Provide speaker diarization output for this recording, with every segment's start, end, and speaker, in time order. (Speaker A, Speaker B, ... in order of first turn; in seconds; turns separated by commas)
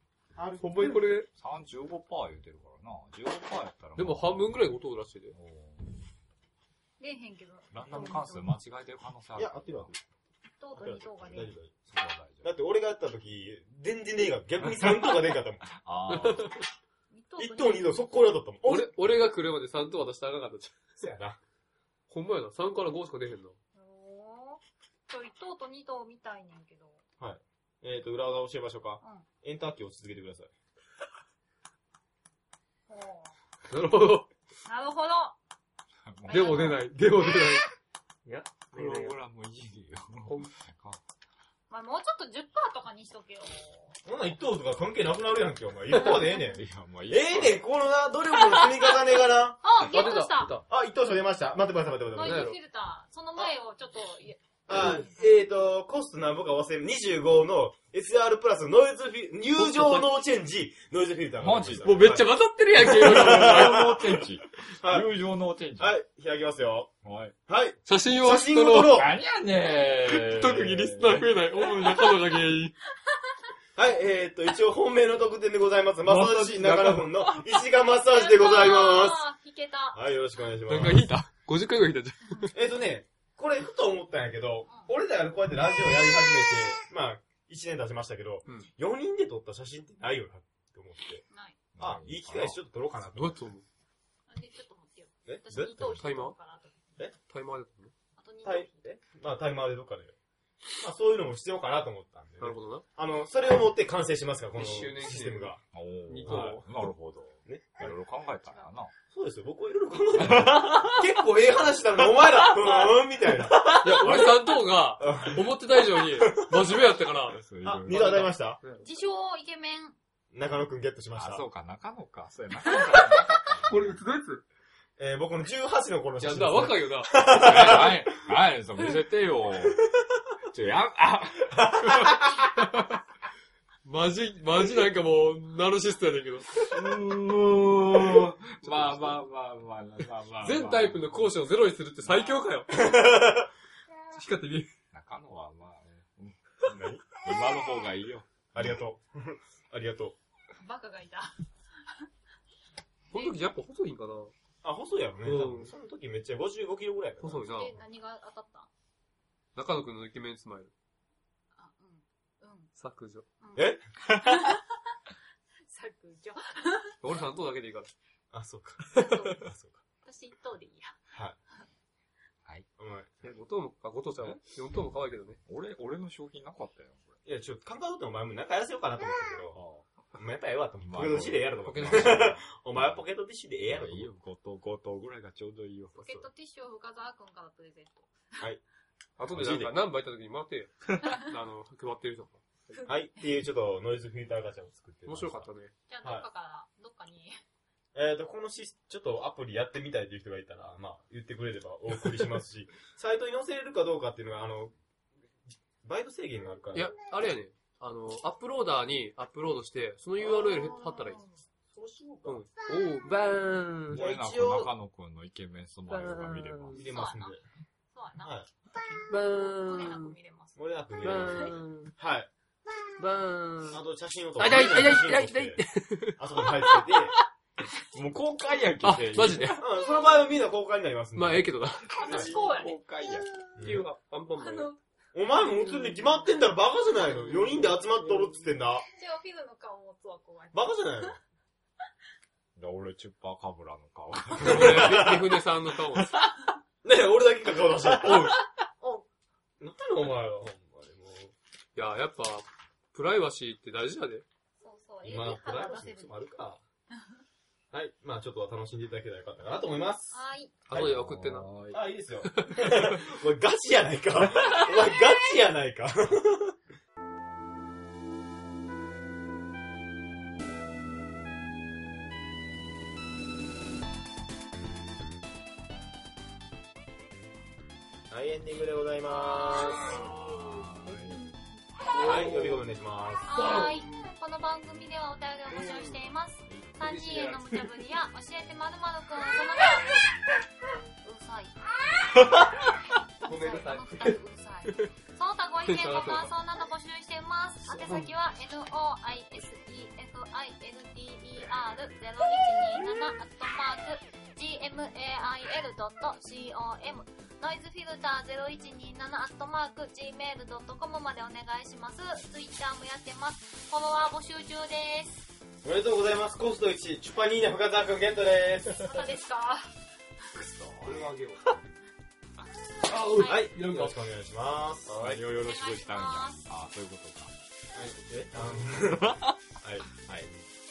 Speaker A: 0.3-1.0, Speaker B: 0.6-1.3, Speaker C: 1.3-4.6, Speaker B: 4.0-5.3, Speaker C: 5.3-6.0, Speaker D: 7.0-8.5, Speaker C: 7.7-10.0, Speaker A: 9.3-9.9, Speaker D: 10.6-11.5, Speaker A: 10.7-11.7, Speaker C: 11.9-12.5, Speaker A: 12.4-15.6, Speaker C: 15.7-16.5, Speaker B: 16.1-16.6, Speaker D: 17.1-17.9, Speaker A: 17.4-19.1, Speaker B: 18.6-20.9, Speaker A: 21.0-21.4, Speaker B: 22.1-23.6, Speaker D: 23.7-27.0, Speaker A: 27.2-30.5, Speaker D: 32.9-33.3, Speaker B: 33.7-34.3, Speaker D: 34.6-35.4, Speaker C: 36.0-36.8, Speaker D: 36.3-37.5, Speaker B: 36.3-37.6, Speaker B: 38.2-39.1, Speaker C: 38.7-41.0, Speaker B: 40.2-40.5, Speaker D: 41.7-44.0, Speaker A: 44.0-49.6, Speaker D: 46.0-46.6, Speaker C: 46.5-47.6, Speaker D: 48.4-49.0, Speaker D: 49.6-50.5, Speaker B: 49.8-50.6, Speaker A: 50.7-52.5, Speaker D: 52.1-55.0, Speaker B: 52.2-52.6, Speaker A: 54.7-64.0, Speaker B: 59.5-60.1, Speaker C: 61.4-61.9, Speaker B: 61.8-64.0, Speaker C: 62.9-65.9, Speaker A: 64.8-65.1, Speaker A: 65.8-66.9, Speaker C: 67.0-67.3, Speaker A: 67.5-69.1, Speaker B: 67.8-69.0, Speaker C: 68.8-72.2, Speaker B: 70.0-72.7, Speaker A: 73.8-79.2, Speaker C: 76.0-77.3, Speaker D: 78.1-80.0, Speaker A: 79.9-81.1, Speaker B: 80.7-82.5, Speaker A: 82.5-91.2, Speaker D: 91.3-91.6, Speaker C: 91.7-92.6, Speaker A: 91.8-93.4, Speaker B: 93.1-93.6, Speaker D: 94.3-96.7, Speaker A: 95.3-96.0, Speaker B: 96.0-96.3, Speaker B: 97.3-97.9, Speaker D: 98.2-98.8, Speaker A: 98.4-100.1, Speaker A: 100.8-105.6, Speaker B: 102.4-102.8, Speaker B: 104.5-105.5, Speaker C: 105.7-108.9, Speaker B: 106.1-106.6, Speaker A: 106.2-106.6, Speaker A: 107.5-107.9, Speaker A: 109.1-114.3, Speaker C: 110.2-111.1, Speaker C: 113.5-113.8, Speaker B: 113.7-118.9, Speaker A: 115.0-115.4, Speaker A: 116.2-116.6, Speaker C: 117.3-118.3, Speaker A: 117.6-118.6, Speaker D: 118.8-119.9, Speaker A: 120.3-121.4, Speaker C: 121.2-124.0, Speaker B: 123.7-124.4, Speaker A: 125.0-128.2, Speaker B: 126.2-127.1, Speaker C: 127.3-129.8, Speaker C: 130.5-132.2, Speaker A: 131.5-132.6, Speaker B: 133.8-136.7, Speaker C: 136.7-141.2, Speaker B: 138.6-139.2, Speaker B: 140.4-142.8, Speaker A: 142.7-143.5, Speaker B: 144.1-144.7, Speaker C: 144.9-148.3, Speaker A: 146.7-147.0, Speaker A: 148.5-150.2, Speaker D: 150.6-152.1, Speaker B: 153.1-154.3, Speaker D: 153.1-153.4, Speaker A: 154.6-157.5, Speaker B: 155.2-155.7, Speaker B: 157.2-157.7, Speaker D: 157.4-158.7, Speaker B: 159.6-160.7, Speaker D: 161.6-162.7, Speaker B: 162.8-163.2, Speaker D: 163.4-164.7, Speaker A: 163.6-164.3, Speaker D: 165.7-166.9, Speaker B: 167.0-167.9, Speaker A: 168.3-169.8, Speaker D: 168.9-169.5, Speaker D: 170.0-171.0, Speaker A: 172.8-173.1, Speaker B: 173.2-175.4, Speaker C: 175.4-177.2, Speaker A: 177.2-179.6, Speaker C: 179.5-179.9, Speaker A: 180.1-184.1, Speaker C: 180.8-183.0, Speaker B: 181.7-182.3, Speaker C: 183.7-186.3, Speaker D: 185.9-188.5, Speaker B: 189.2-192.8, Speaker C: 189.3-189.8, Speaker D: 192.7-193.0, Speaker A: 192.8-195.5, Speaker B: 195.1-195.7, Speaker D: 195.9-197.4, Speaker A: 197.9-204.7, Speaker A: 205.8-206.9, Speaker B: 206.7-211.2, Speaker D: 210.5-211.3, Speaker A: 211.7-212.4, Speaker B: 212.2-214.0, Speaker C: 213.9-216.8, Speaker A: 213.9-214.7, Speaker B: 215.9-216.9, Speaker A: 216.7-217.4, Speaker D: 216.8-217.3, Speaker D: 217.9-218.3, Speaker A: 218.2-218.5, Speaker B: 219.1-220.1, Speaker D: 219.6-220.6, Speaker A: 220.6-222.3, Speaker B: 221.0-221.9, Speaker D: 221.2-221.5, Speaker B: 223.0-223.8, Speaker A: 223.7-225.6, Speaker B: 224.4-227.2, Speaker A: 226.2-227.1, Speaker C: 227.9-229.6, Speaker B: 228.8-229.6, Speaker A: 229.6-232.3, Speaker B: 231.1-232.2, Speaker C: 231.9-233.4, Speaker D: 232.0-232.8, Speaker A: 233.6-233.8, Speaker B: 233.6-234.7, Speaker D: 234.4-234.8, Speaker A: 235.1-238.8, Speaker D: 235.5-235.9, Speaker B: 237.2-238.4, Speaker D: 238.9-241.2, Speaker A: 240.5-241.2, Speaker C: 242.6-245.1, Speaker A: 244.4-245.3, Speaker B: 244.4-246.1, Speaker A: 246.8-248.3, Speaker B: 247.9-248.4, Speaker D: 248.6-249.1, Speaker A: 249.6-251.3, Speaker B: 251.7-254.2, Speaker D: 254.6-256.1, Speaker A: 255.0-256.6, Speaker A: 257.7-260.2, Speaker D: 260.1-260.5, Speaker B: 260.7-261.5, Speaker A: 260.7-261.0, Speaker C: 260.7-261.8, Speaker A: 261.7-266.6, Speaker B: 262.2-263.0, Speaker A: 278.1-279.9, Speaker D: 279.1-280.0, Speaker B: 279.5-280.3, Speaker C: 279.9-281.2, Speaker B: 281.9-282.6, Speaker A: 282.0-283.4, Speaker D: 283.2-290.0, Speaker B: 283.3-284.1, Speaker B: 285.5-286.1, Speaker C: 286.5-286.8, Speaker B: 286.8-287.7, Speaker D: 291.0-315.3, Speaker B: 293.2-294.9, Speaker B: 295.6-296.3, Speaker B: 297.6-298.1, Speaker B: 302.2-303.0, Speaker A: 315.6-319.1, Speaker D: 318.8-319.7, Speaker C: 320.4-321.2, Speaker B: 320.8-321.3, Speaker B: 322.9-323.9, Speaker D: 322.9-323.4, Speaker A: 323.2-324.9, Speaker C: 324.9-327.3, Speaker B: 324.9-325.2, Speaker D: 325.4-326.4, Speaker A: 327.7-329.9, Speaker C: 328.7-329.4, Speaker C: 330.1-330.3